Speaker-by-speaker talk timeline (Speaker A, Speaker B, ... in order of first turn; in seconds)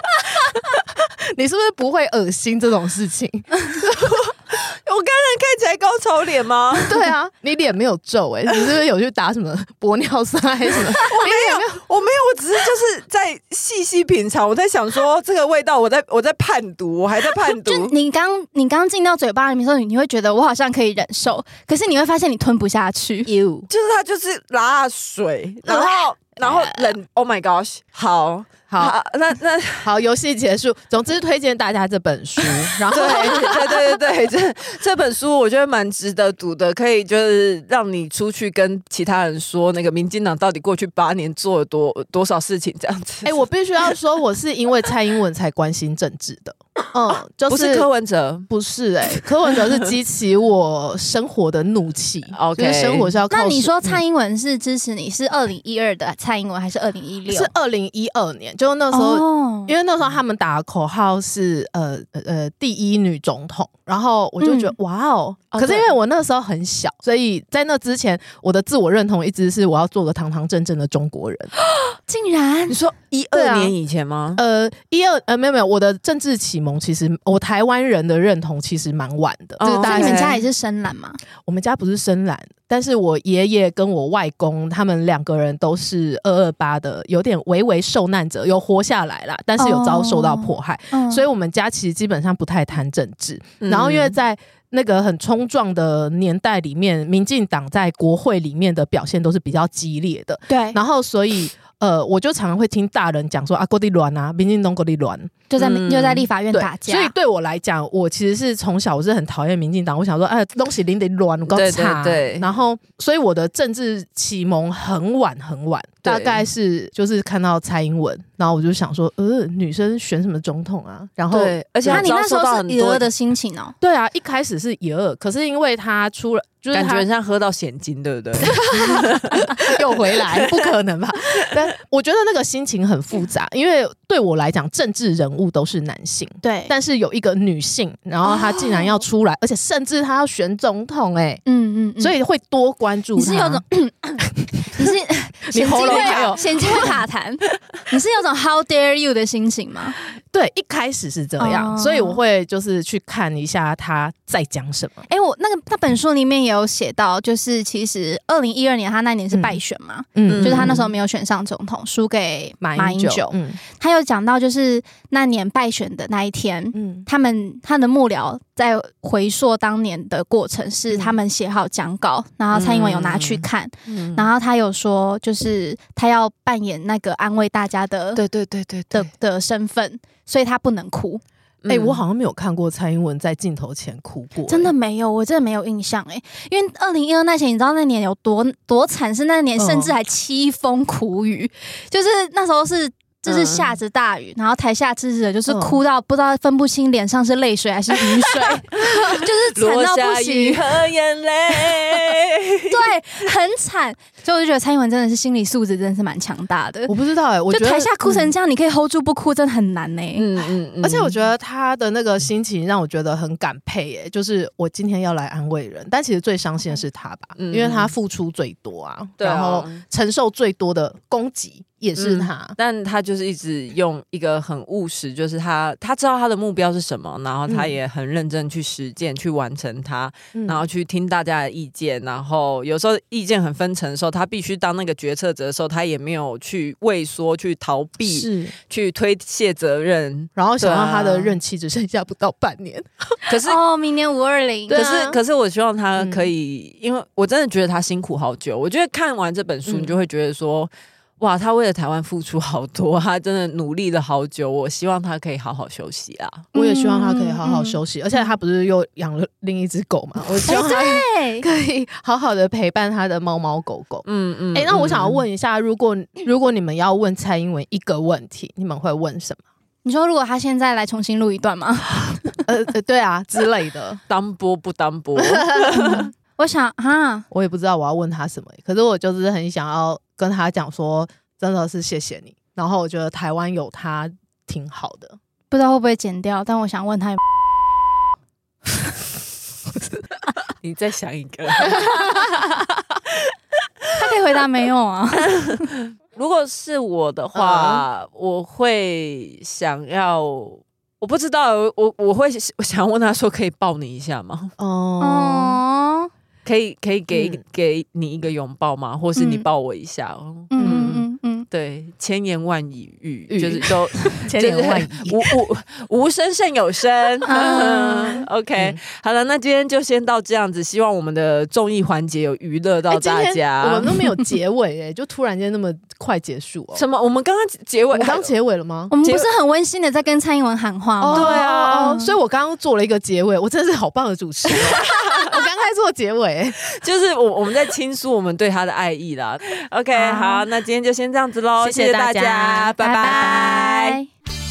Speaker A: 0.7-4.2, 6.8-11.8, 23.3-23.7, 28.7-28.9, 29.8-33.8, 43.2-47.9, 48.5-54.0, 57.3-71.5, 73.3-73.7, 74.3-80.4, 81.5-105.3, 106.5-122.1, 123.8-127.0, 128.4-141.4, 142.0-143.6, 144.4-144.9, 145.4-147.0, 150.3-155.1, 159.3-159.6, 160.1-160.9, 162.6-163.6, 166.7-167.1, 170.9-171.2, 181.7-184.7, 189.6-189.9, 193.3-193.6, 195.5-195.8, 206.9-208.2, 210.8-222.6, 227.5-227.8, 230.3-230.6, 238.1-238.5, 240.3-243.2, 244.7-245.2, 246.0-246.3, 249.7-249.9, 256.5-269.4, 272.4-274.0, 275.2-276.1, 277.3-285.1, 297.3-297.8, 304.6-305.6, 307.1-307.4, 310.6-311.0, 313.3-315.3, 322.9-326.8, 327.9-328.9, 331.0-336.6, 340.0-340.4, 341.6-342.7
Speaker B: 3.9-7.0, 10.9-17.9, 23.7-29.9, 32.9-43.4, 47.1-48.5, 52.3-53.1, 65.5-65.9, 72.7-74.4, 79.6-80.4, 93.6-94.1, 105.6-106.3, 111.5-112.5, 116.0-116.4, 121.3-123.1, 126.7-130.7, 145.8-146.4, 160.3-160.8, 172.5-174.3, 178.2-179.1, 181.6-182.0, 198.9-202.8, 210.2-211.1, 217.4-217.9, 219.2-219.8, 221.9-241.4, 243.3-243.6, 244.7-256.5, 264.0-265.2, 274.1-276.1, 290.6-292.4, 295.3-304.5, 306.4-323.9, 326.7-328.3, 329.0-329.3, 331.1-331.9, 334.5-335.4, 336.7-344.0
Speaker C: 17.5-23.3, 25.7-26.9, 53.3-57.5, 58.9-59.7, 64.4-64.7, 71.6-72.8, 79.8-81.2, 89.6-91.2, 100.5-100.8, 105.5-107.1, 121.9-123.7, 136.4-136.7, 138.2-138.9, 141.4-142.1, 143.1-149.9, 151.4-152.2, 155.1-178.2, 178.9-181.2, 184.5-200.6, 202.7-206.9, 207.5-210.2, 243.4-245.0, 256.5-257.8, 260.4-261.4, 269.8-272.4, 275.7-277.3, 285.5-287.2, 293.9-295.6, 305.0-306.1, 309.1-309.4, 310.5-311.4, 317.2-318.2, 328.9-332.1, 342.8-344.1